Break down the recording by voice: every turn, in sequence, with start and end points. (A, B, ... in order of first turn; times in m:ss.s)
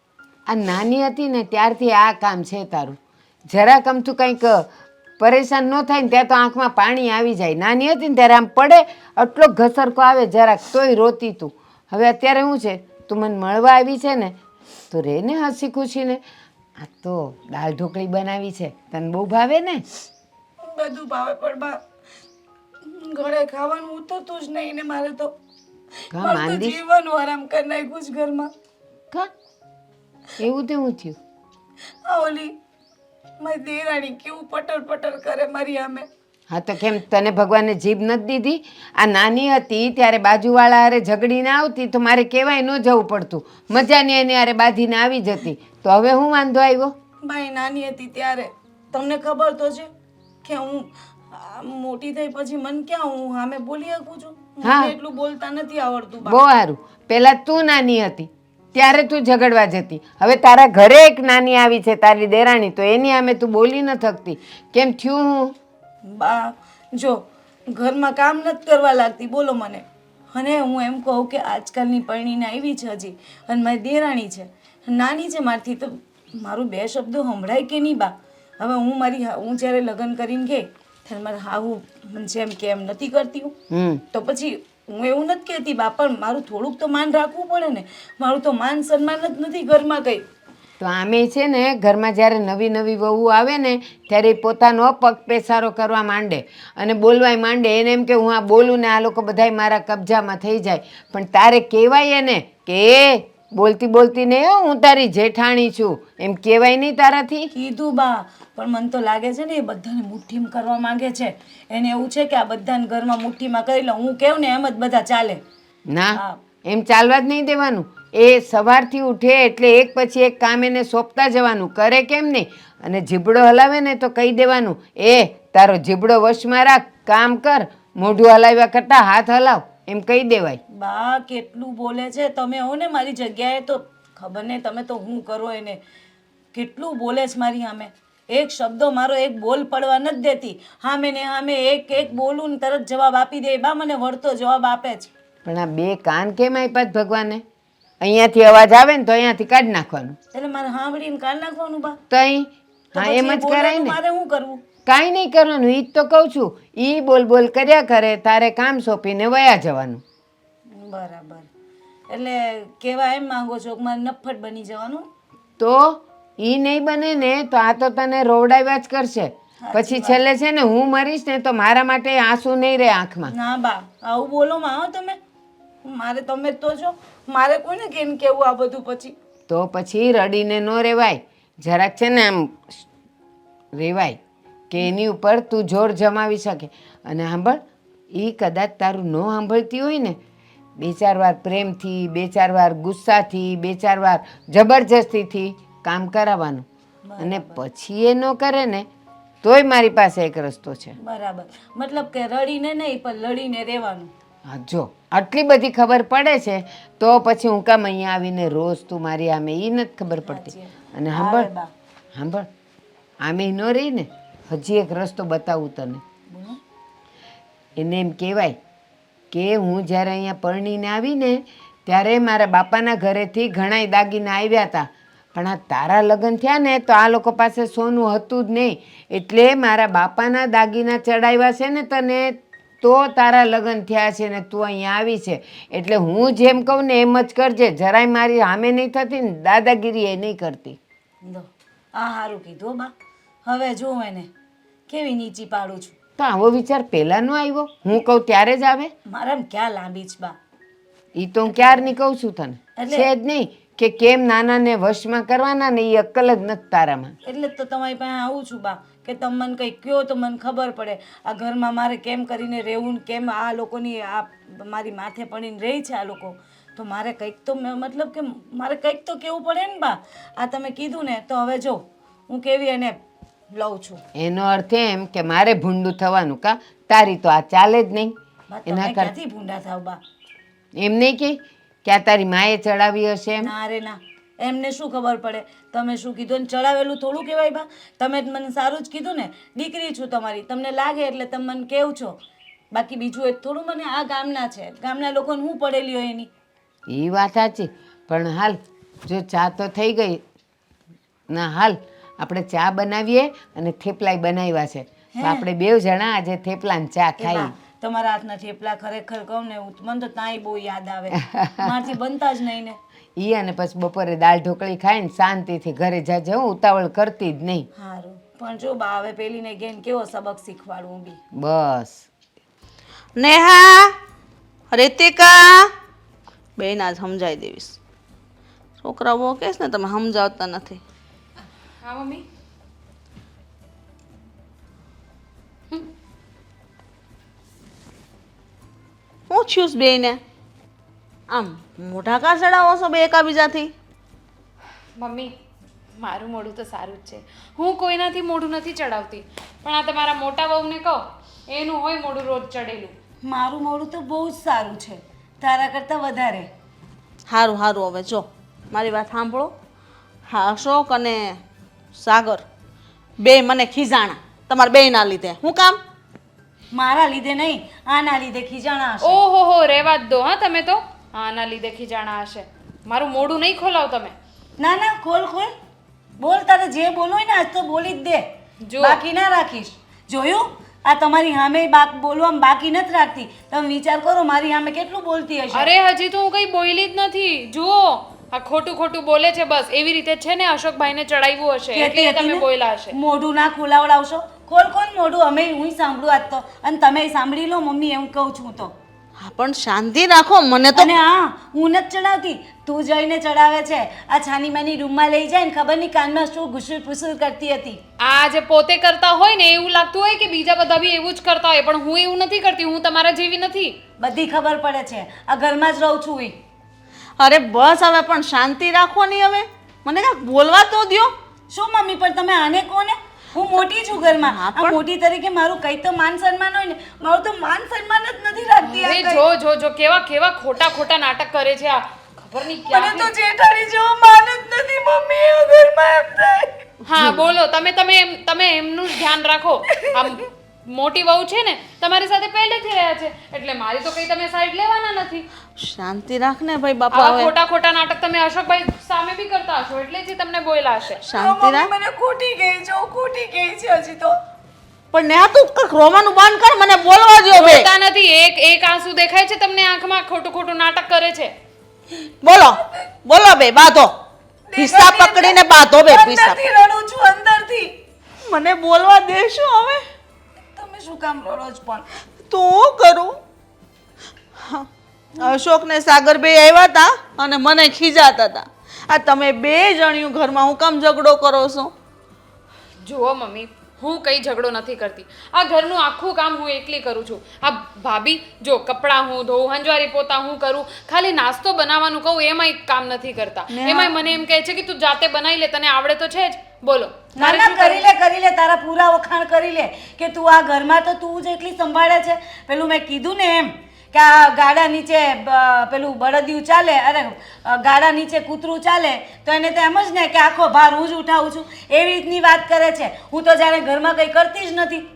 0:00.5-0:04.7 A
0:05.2-0:14.3 A
0:14.9-0:16.2 A
0:16.8-0:19.8 A
0:20.6-0:21.8 B
0:22.8-0:25.3 B
0:26.1-0:26.8 A
0:26.1-0:28.5 B
0:30.4-0:31.2 A
0:32.0-0:32.5 B
0:33.4-0:36.1 B
0:36.5-0:46.9 A
0:47.2-0:49.9 B
0:50.4-0:56.4 B
0:54.6-0:54.9 A
0:56.2-1:05.5 A
1:06.1-1:23.6 B
1:23.7-1:24.0 A
1:24.1-1:30.2 B
1:30.8-1:47.5 A
1:47.5-1:55.4 B
1:55.9-2:10.6 A
2:10.7-2:15.8 B
2:16.5-2:25.1 B
2:25.4-2:27.4 A
2:28.0-2:30.2 A
2:30.3-2:32.0 B
2:32.1-2:34.0 A
2:32.9-2:34.6 B
2:34.8-2:40.0 A
2:40.7-2:41.5 B
2:42.1-2:45.1 B
2:45.6-2:53.3 A
2:49.6-2:50.2 B
2:53.3-2:55.2 B
2:55.8-2:59.1 B
2:59.5-3:02.8 A
3:03.7-3:04.2 A
3:04.7-3:07.6 A
3:08.1-3:10.2 A
3:10.8-3:16.6 A
3:17.0-3:17.6 B
3:17.2-3:18.9 A
3:19.4-3:20.9 A
3:21.0-3:24.1 B
3:24.4-3:31.5 A
3:30.2-3:31.7 B
3:32.1-3:32.5 A
3:33.2-3:36.0 A
3:36.3-3:36.6 B
3:37.8-3:38.6 A
3:39.3-4:00.8 A
4:01.2-4:02.9 B
4:03.4-4:04.3 B
4:04.9-4:05.9 B
4:06.2-4:08.9 A
4:09.1-4:10.3 B
4:11.2-4:17.1 A
4:11.5-4:11.9 B
4:12.8-4:13.1 B
4:17.2-4:33.0 B
4:33.5-4:34.0 B
4:34.1-4:38.1 A
4:38.5-4:40.0 B
4:38.7-4:39.1 A
4:40.7-4:43.5 A
4:43.4-4:52.2 B
4:52.7-4:56.3 B
4:56.9-5:00.2 A
5:01.3-5:07.5 A
5:05.2-5:05.4 B
5:07.2-5:12.8 B
5:11.3-5:11.6 A
5:13.2-5:17.7 A
5:17.8-5:21.2 B
5:21.3-5:22.0 A
5:23.2-5:23.9 C
5:24.7-5:25.7 C
5:26.6-5:27.8 C
5:28.8-5:30.8 C
5:31.8-5:32.2 D
5:39.3-5:40.2 C
5:41.3-5:43.7 C
5:45.0-5:45.3 D
5:46.0-5:52.9 D
5:53.2-5:56.5 B
5:57.3-5:59.5 C
6:00.3-6:01.4 C
6:02.0-6:02.4 C
6:03.2-6:05.8 C
6:06.7-6:09.2 B
6:09.0-6:14.1 D
6:14.6-6:15.5 B
6:16.2-6:18.2 B
6:18.6-6:19.0 D
6:18.8-6:25.7 B
6:25.5-6:32.9 D
6:31.7-6:38.7 B
6:39.2-6:40.9 C
6:40.7-6:47.8 B
6:48.0-6:53.8 D
6:54.0-6:56.3 B
6:57.2-7:01.1 C
7:01.5-7:09.2 B
7:04.1-7:04.8 C
7:08.6-7:13.1 D
7:12.7-7:16.6 B
7:16.9-7:25.2 D
7:25.6-7:27.3 C
7:26.9-7:31.0 D
7:31.0-7:34.1 B
7:31.1-7:31.7 C
7:34.9-7:37.7 C
7:37.3-7:41.3 D
7:42.2-7:43.9 C
7:44.5-7:47.7 B
7:44.6-7:46.4 C
7:48.2-7:49.8 C
7:50.6-7:51.8 B
7:52.3-7:53.1 C
7:55.2-8:01.7 C
8:02.8-8:17.8 D
8:13.5-8:13.9 C
8:17.2-8:34.8 B